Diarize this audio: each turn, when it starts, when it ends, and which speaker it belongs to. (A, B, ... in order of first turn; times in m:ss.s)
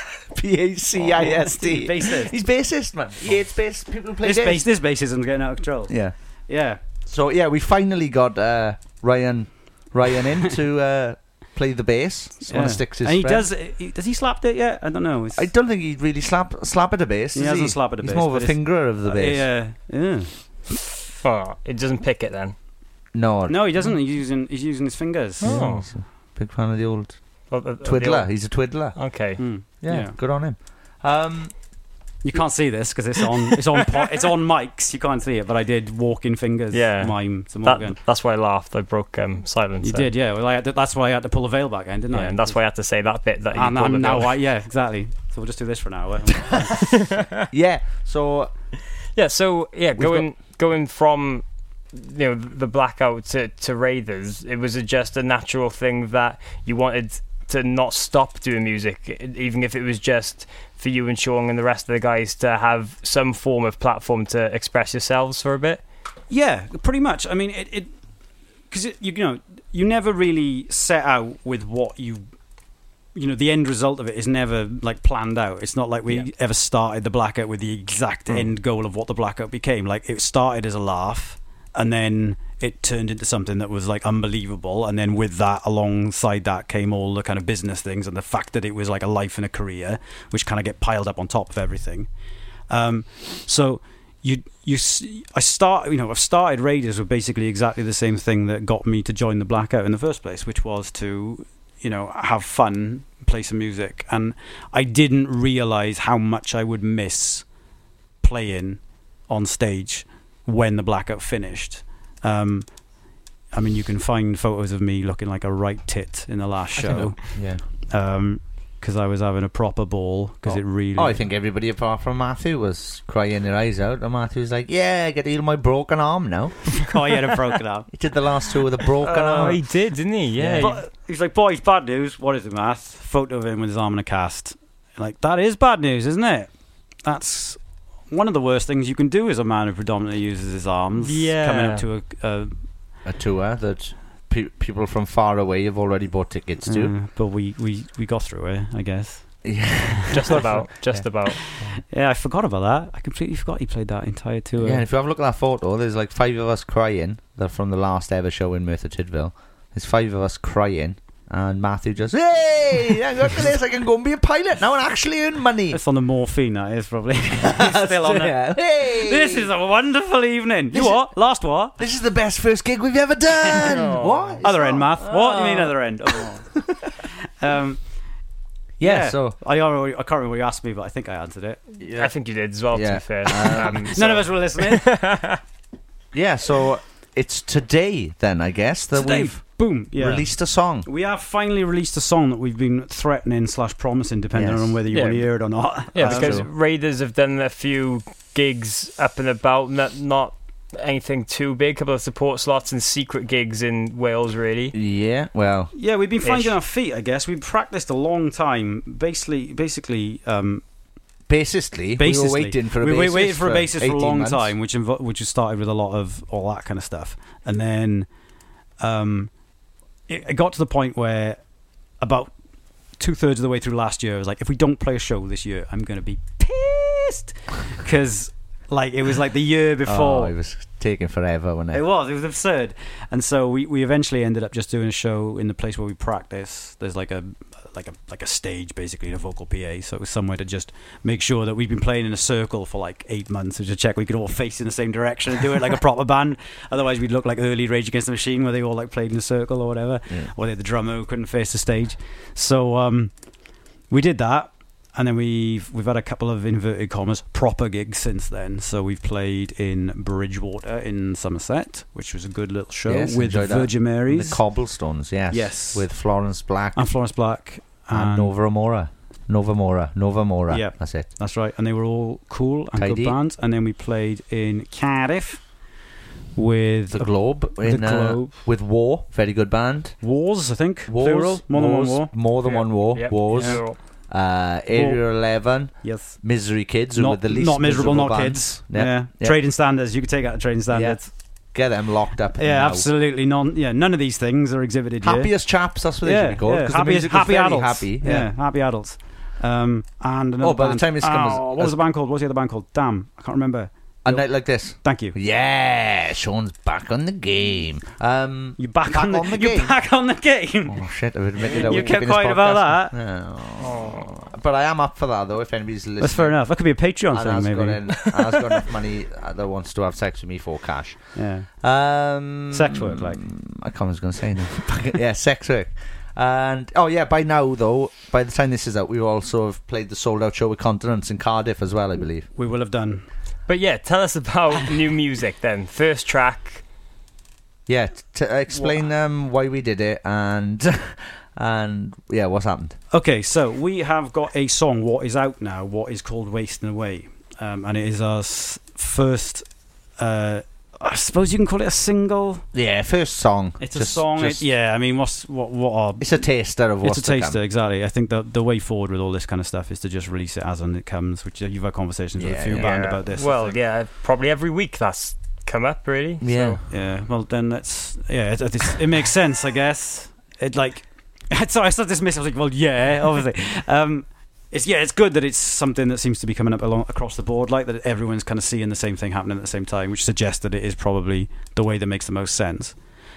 0:00.3-0:04.7 A
0:01.0-0:02.3 B
0:04.2-0:06.8 B
0:05.9-0:06.1 A
0:07.0-0:13.5 A
0:12.5-0:15.5 B
0:15.3-0:19.5 A
0:17.3-0:20.8 B
0:21.2-0:22.6 C
0:23.1-0:23.9 A
0:23.5-0:25.8 B
0:25.4-0:25.8 C
0:25.4-0:27.2 A
0:27.5-0:28.4 C
0:27.8-0:31.5 A
0:28.9-0:29.4 C
0:29.4-0:30.2 B
0:32.2-0:38.0 B
0:36.7-0:40.1 C
0:39.8-0:42.6 B
0:42.1-0:44.4 C
0:43.5-0:46.8 B
0:46.4-0:46.8 A
0:46.9-0:47.4 C
0:47.4-0:48.5 A
0:49.2-1:05.8 C
0:50.0-0:50.3 A
1:06.3-1:07.9 B
1:08.7-1:12.2 B
1:13.2-1:32.1 B
1:32.7-1:47.4 B
1:48.2-1:52.8 B
1:53.5-2:01.2 B
1:56.8-1:57.6 A
2:00.4-2:06.8 A
2:06.7-2:07.9 B
2:07.9-2:09.6 A
2:09.0-2:09.6 B
2:09.1-2:10.8 C
2:10.4-2:10.8 A
2:10.6-2:16.5 B
2:17.0-2:22.6 B
2:21.0-2:21.8 C
2:23.0-2:27.0 A
2:26.6-2:30.7 B
2:29.4-2:31.0 A
2:30.1-2:31.4 C
2:31.3-2:34.8 B
2:34.6-2:45.8 A
2:45.7-2:51.8 B
2:47.4-2:49.5 A
2:50.7-2:51.2 A
2:51.8-2:56.4 A
2:53.6-2:54.4 C
2:54.4-2:56.6 B
2:57.4-2:57.8 B
2:58.8-2:59.4 A
2:58.8-3:01.6 B
3:01.8-3:03.8 A
3:01.9-3:05.4 C
3:03.4-3:05.1 B
3:06.1-3:10.9 A
3:08.9-3:10.3 B
3:10.8-3:16.4 B
3:14.3-3:14.8 A
3:14.9-3:24.8 C
3:16.0-3:16.5 A
3:24.7-3:25.7 A
3:25.7-3:30.6 B
3:26.2-3:26.5 C
3:31.3-3:34.5 A
3:32.0-3:38.1 B
3:38.8-3:39.3 B
3:40.1-3:41.4 B
3:42.0-3:42.3 B
3:43.0-3:50.3 B
3:49.8-3:51.8 A
3:51.7-4:13.1 B
4:13.9-4:24.4 B
4:22.9-4:26.9 A
4:25.3-4:25.9 B
4:26.8-4:28.3 B
4:27.9-4:31.1 A
4:30.5-4:35.4 B
4:32.8-4:33.2 A
4:36.4-4:38.5 B
4:36.9-4:40.0 A
4:40.0-4:42.2 B
4:40.9-4:49.4 A
4:42.4-4:43.8 C
4:43.3-4:43.6 B
4:44.7-4:46.3 B
4:46.9-4:51.1 B
4:50.7-4:51.0 A
4:51.5-4:52.9 A
4:52.4-4:55.3 B
4:55.0-4:58.3 A
4:56.0-5:04.3 B
5:00.4-5:01.8 A
5:04.0-5:09.8 A
5:04.8-5:05.2 B
5:08.6-5:10.8 B
5:10.7-5:16.4 A
5:11.5-5:11.8 C
5:11.5-5:13.0 B
5:13.6-5:14.1 C
5:16.0-5:18.0 B
5:17.1-5:32.3 A
5:21.2-5:21.5 B
5:22.5-5:23.2 B
5:32.4-5:33.0 B
5:33.5-5:36.6 C
5:37.7-5:42.8 A
5:38.5-5:38.8 B
5:42.9-5:49.4 B
5:50.0-5:52.4 B
5:52.5-5:54.5 A
5:53.6-5:56.1 B
5:56.0-5:57.4 A
5:56.7-6:03.6 B
6:02.2-6:03.0 A
6:02.6-6:06.6 C
6:06.2-6:06.6 A
6:06.7-6:22.8 B